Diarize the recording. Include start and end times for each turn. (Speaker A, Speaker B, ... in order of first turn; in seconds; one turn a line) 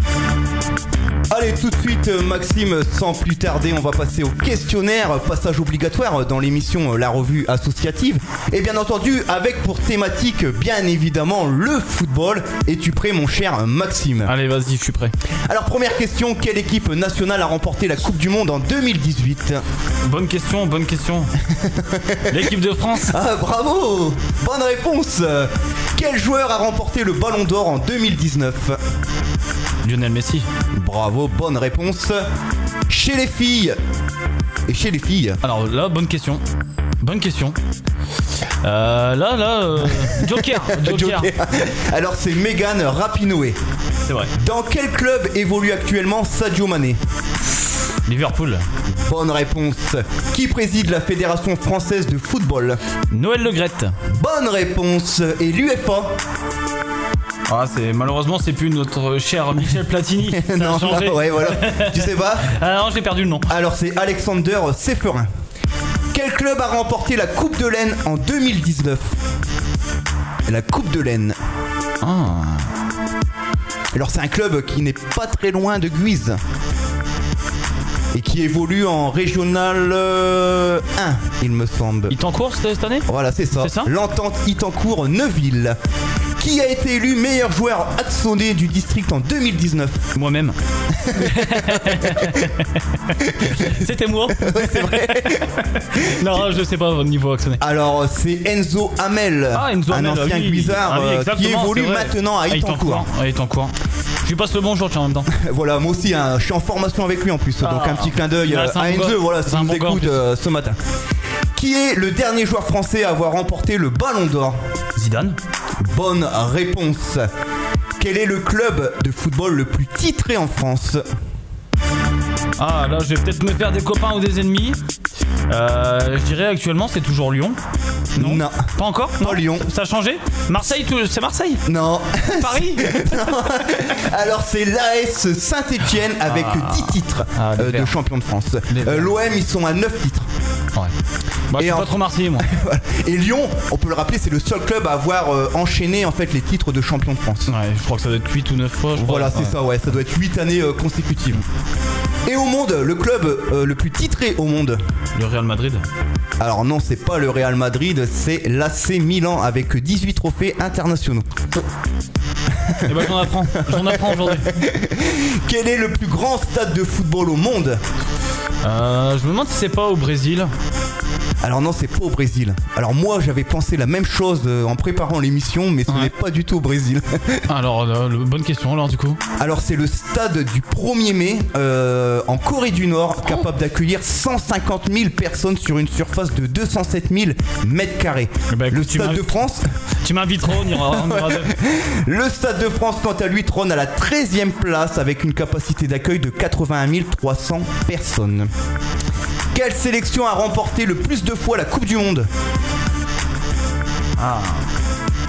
Speaker A: 1.3-14.3
Speaker B: 14.3-15.1
Speaker A: 15.5-19.6
Speaker B: 20.0-21.3
Speaker A: 21.5-22.5
Speaker B: 22.3-23.1
Speaker A: 23.0-28.8
Speaker B: 29.8-30.5
Speaker A: 30.7-32.2
Speaker A: 32.9-33.8
Speaker A: 34.7-35.4
Speaker B: 35.4-36.4
Speaker B: 37.0-37.6
Speaker B: 38.6-41.3
Speaker A: 40.0-43.6
Speaker B: 44.0-44.3
Speaker A: 44.3-47.0
Speaker B: 48.0-48.6
Speaker A: 49.0-52.8
Speaker B: 53.1-53.9
Speaker A: 54.1-56.1
Speaker B: 57.5-63.5
Speaker A: 60.3-62.5
Speaker A: 63.5-65.3
Speaker A: 66.1-69.2
Speaker A: 70.5-71.3
Speaker B: 72.0-72.7
Speaker A: 73.9-76.4
Speaker A: 78.1-82.2
Speaker B: 82.1-83.1
Speaker A: 83.1-85.8
Speaker B: 83.6-83.9
Speaker A: 86.4-90.0
Speaker B: 90.1-90.5
Speaker A: 90.9-92.4
Speaker B: 91.1-97.6
Speaker A: 93.2-93.8
Speaker A: 94.3-96.4
Speaker A: 97.6-103.0
Speaker B: 99.5-105.3
Speaker A: 105.3-110.8
Speaker B: 107.6-110.2
Speaker A: 111.5-114.6
Speaker B: 115.0-115.4
Speaker A: 115.8-117.2
Speaker A: 118.0-121.0
Speaker B: 122.6-124.8
Speaker B: 125.5-127.6
Speaker B: 128.1-131.6
Speaker A: 128.2-128.7
Speaker A: 129.2-129.7
Speaker A: 131.7-140.2
Speaker B: 132.3-133.3
Speaker B: 136.2-137.9
Speaker B: 138.7-139.1
Speaker B: 141.5-142.4
Speaker A: 141.6-147.5
Speaker B: 147.5-149.5
Speaker A: 149.0-151.4
Speaker A: 152.2-154.8
Speaker B: 155.1-155.8
Speaker A: 156.4-161.3
Speaker A: 162.5-167.8
Speaker B: 162.8-164.5
Speaker B: 168.6-170.5
Speaker A: 171.4-177.4
Speaker B: 177.5-179.2
Speaker A: 179.4-189.6
Speaker B: 188.5-189.3
Speaker B: 190.0-191.6
Speaker A: 190.6-198.5
Speaker A: 199.5-202.3
Speaker B: 204.2-204.6